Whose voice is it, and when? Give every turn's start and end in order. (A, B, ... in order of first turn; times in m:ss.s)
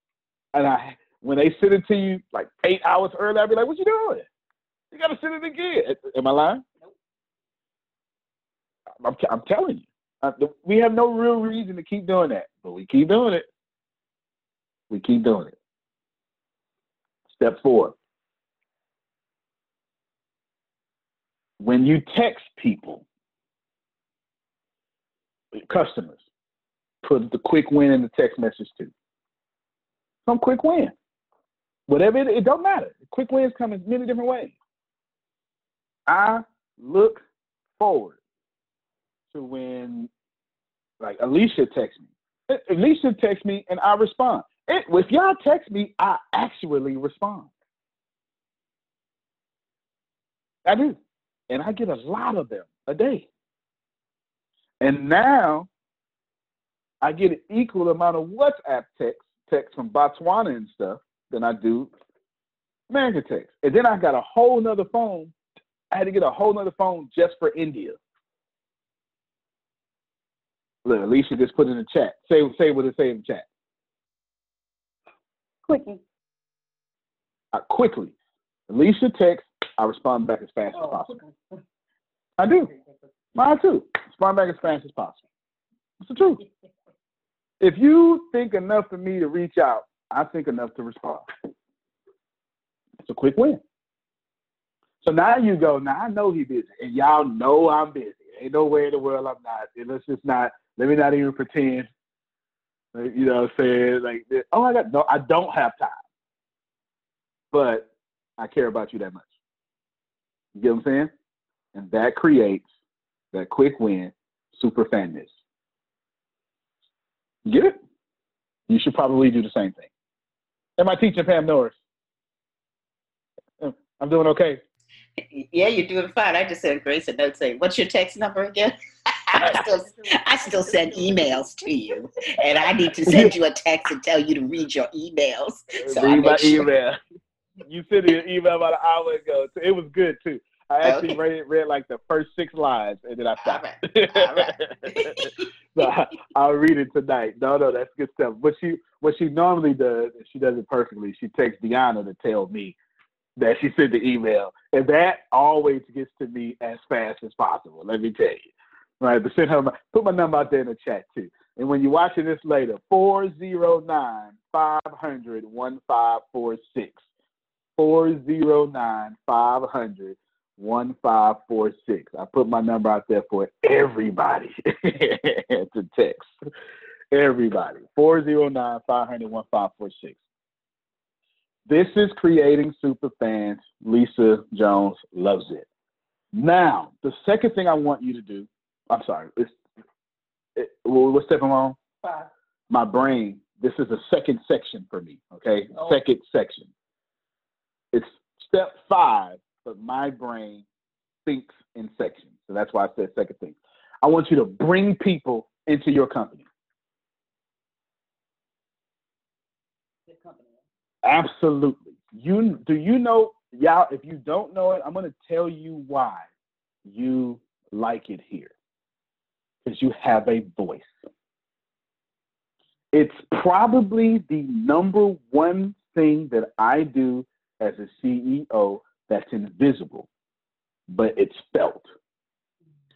0:00.5-0:04.3 A
0:04.9-0:06.6 A
0:09.0-0:13.5 A
0:14.9-0:15.5 A
0:17.3-0:18.0 A
0:21.6-0:23.0 A
0:25.5-0:26.2 A
0:27.0-0:28.9 A
0:30.2-0:30.9 A
0:31.9-0:34.5 A
0:36.1-0:37.2 A
0:37.8-0:38.2 A
0:39.3-0:40.1 A
0:41.0-0:47.5 A
0:50.6-0:51.0 A
0:51.5-0:53.3 A
0:54.8-0:55.7 A
0:57.0-1:01.9 A
1:02.9-1:05.3 A
1:05.9-1:08.0 A
1:10.8-1:13.4 A
1:15.6-1:16.0 B
1:17.5-1:18.1 A
1:18.7-1:21.2 A
1:20.8-1:21.3 B
1:22.4-1:22.7 A
1:23.3-1:25.2 A
1:26.0-1:26.4 A
1:27.6-1:31.3 A
1:33.0-1:33.6 A
1:35.0-1:41.9 A
1:42.9-1:46.0 A
1:47.5-1:49.3 A
1:50.5-1:51.1 A
1:51.7-1:52.6 A
1:53.3-1:55.3 A
1:57.4-1:57.7 A
1:58.7-1:59.9 A
2:00.8-2:01.8 A
2:03.6-2:04.6 A
2:05.3-2:16.7 C
2:09.9-2:11.4 B
2:13.0-2:13.4 A
2:15.8-2:17.0 A
2:17.6-2:32.8 A
2:20.8-2:21.2 C
2:23.4-2:25.4 C
2:33.4-2:47.0 A
2:47.8-2:56.3 A
2:57.1-3:00.2 A
3:01.7-3:05.7 A
3:06.3-3:09.6 A
3:10.6-3:11.8 A
3:12.7-3:16.7 A
3:17.9-3:20.6 A
3:21.2-3:26.4 A
3:30.1-3:30.6 B
3:31.0-3:36.3 A
3:36.8-3:38.5 A
3:39.6-3:40.9 A
3:42.9-3:50.1 A
3:50.9-3:51.9 A